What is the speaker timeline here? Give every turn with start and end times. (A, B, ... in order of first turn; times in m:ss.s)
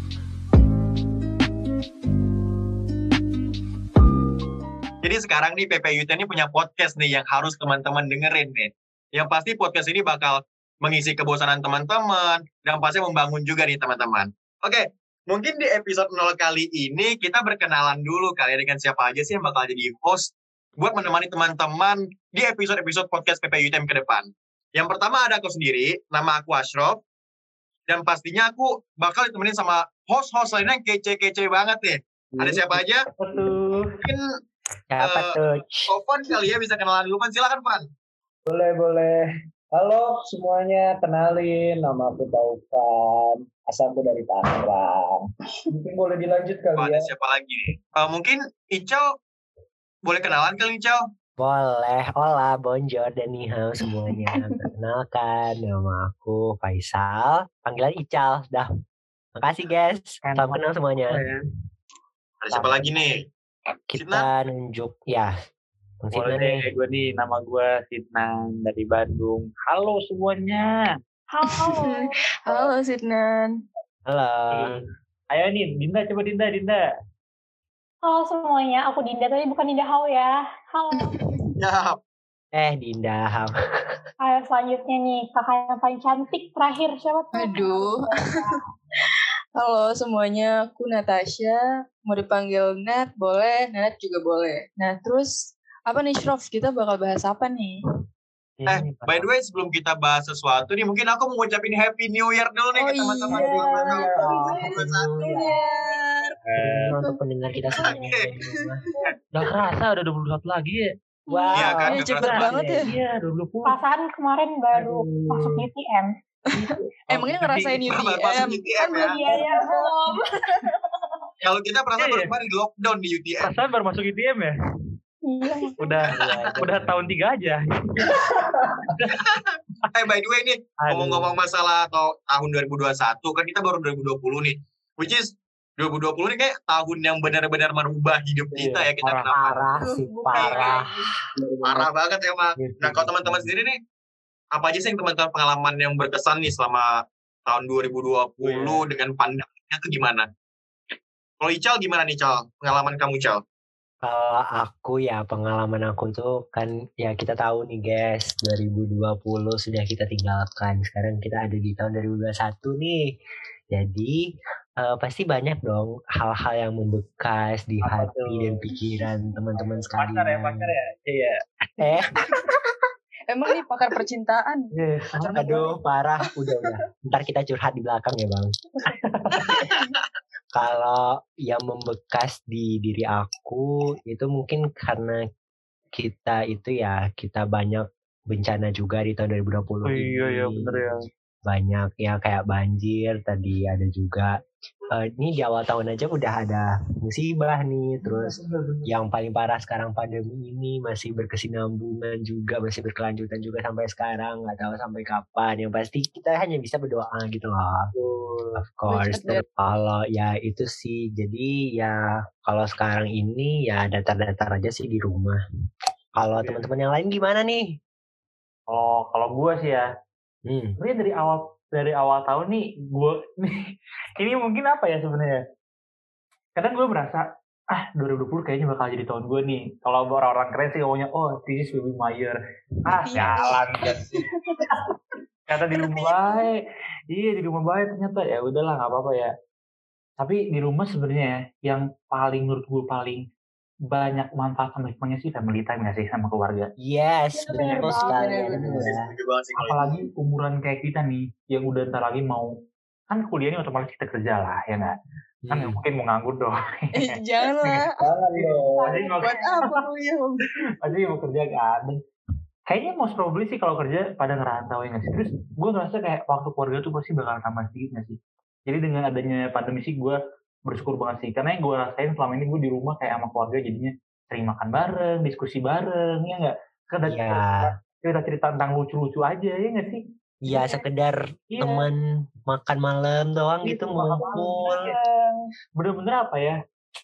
0:05.0-0:27.0 A
0:27.9-0:33.0 A
0:32.4-0:32.8 B
0:33.2-0:33.9 C
0:34.9-0:35.9 D
0:35.0-0:35.4 A
0:35.9-0:37.9 A
0:38.5-0:39.2 B
0:39.7-0:47.1 B
0:46.8-0:49.1 A
0:50.1-0:51.0 A
0:51.4-0:58.7 D
0:53.9-0:54.6 E
0:59.4-1:01.2 D
1:00.2-1:01.4 C
1:02.4-1:03.2 A
1:03.9-1:05.3 D
1:04.0-1:04.3 A
1:06.0-1:06.7 D
1:06.1-1:10.8 C
1:11.3-1:12.1 F
1:11.5-1:13.6 E
1:14.1-1:14.8 D
1:14.5-1:16.9 C
1:18.0-1:21.2 F
1:21.0-1:21.4 E
1:21.6-1:22.0 A
1:22.6-1:23.5 D
1:24.2-1:28.6 F
1:27.3-1:28.5 E
1:29.6-1:37.8 E
1:38.6-1:39.3 C
1:38.7-1:45.1 A
1:42.8-1:46.4 E
1:43.3-1:44.7 B
1:44.8-1:45.6 D
1:46.5-1:47.0 C
1:46.6-1:48.8 D
1:47.8-1:48.3 A
1:47.9-1:49.1 E
1:49.3-1:50.9 C
1:51.3-1:51.7 F
1:51.3-1:52.9 D
1:51.5-1:52.6 A
1:51.9-1:52.9 E
1:52.0-1:53.8 C
1:53.7-1:56.1 F
1:54.8-1:55.6 B
1:56.5-2:00.8 E
1:57.1-1:58.0 C
1:57.9-1:59.2 A
1:59.0-2:00.2 F
1:59.3-1:59.7 B
2:01.4-2:03.5 A
2:02.0-2:02.3 C
2:03.4-2:04.5 C
2:05.3-2:06.0 F
2:05.8-2:08.2 C
2:06.1-2:07.0 D
2:08.1-2:09.0 B
2:09.0-2:09.3 C
2:09.1-2:19.6 A
2:10.8-2:11.4 C
2:18.6-2:19.3 C
2:19.3-2:21.1 D
2:19.8-2:21.1 E
2:20.3-2:20.8 A
2:21.4-2:21.9 B
2:21.6-2:23.8 A
2:22.6-2:23.5 C
2:24.5-2:26.9 A
2:27.5-2:30.3 A
2:28.4-2:28.8 C
2:31.4-2:33.4 A
2:34.0-2:43.0 D
2:43.7-2:44.2 D
2:44.8-2:50.7 D
2:47.8-2:48.7 C
2:50.0-2:52.0 C
2:51.8-2:52.1 D
2:53.3-2:54.7 E
2:54.8-2:55.6 C
2:55.3-2:55.8 E
2:55.3-2:58.5 D
2:56.4-2:56.8 E
2:59.0-2:59.6 C
2:59.4-2:59.8 D
3:00.6-3:05.2 D
3:06.0-3:10.8 D
3:09.8-3:11.0 C
3:11.5-3:14.3 D
3:14.9-3:27.9 D
3:18.0-3:18.4 E
3:28.0-3:28.6 C
3:28.6-3:35.4 D
3:28.9-3:29.4 E
3:36.2-3:37.7 D
3:36.4-3:36.7 C
3:38.7-3:39.9 C
3:40.5-3:40.8 D
3:40.8-3:45.4 C
3:46.6-3:47.2 C
3:47.8-3:54.2 C
3:52.9-3:54.9 E
3:53.2-3:53.4 D
3:55.5-3:56.6 C
3:55.7-3:56.4 E
3:57.1-3:59.3 C
4:00.2-4:03.2 C
4:03.9-4:06.7 C
4:06.8-4:09.0 D
4:07.5-4:08.6 F
4:07.5-4:08.9 E
4:07.6-4:07.8 C
4:08.6-4:10.0 A
4:09.6-4:12.5 C
4:13.1-4:15.0 C
4:15.4-4:15.8 D
4:15.5-4:17.8 C
4:16.9-4:18.1 E
4:18.0-4:19.1 B
4:18.5-4:19.6 F
4:18.8-4:19.8 C
4:19.0-4:20.5 E
4:20.8-4:22.0 C
4:22.7-4:28.2 C
4:28.7-4:40.0 C
4:37.1-4:37.7 D
4:40.4-4:44.9 D
4:41.5-4:41.9 C
4:43.7-4:44.9 C
4:44.2-4:45.3 E
4:45.8-4:46.6 C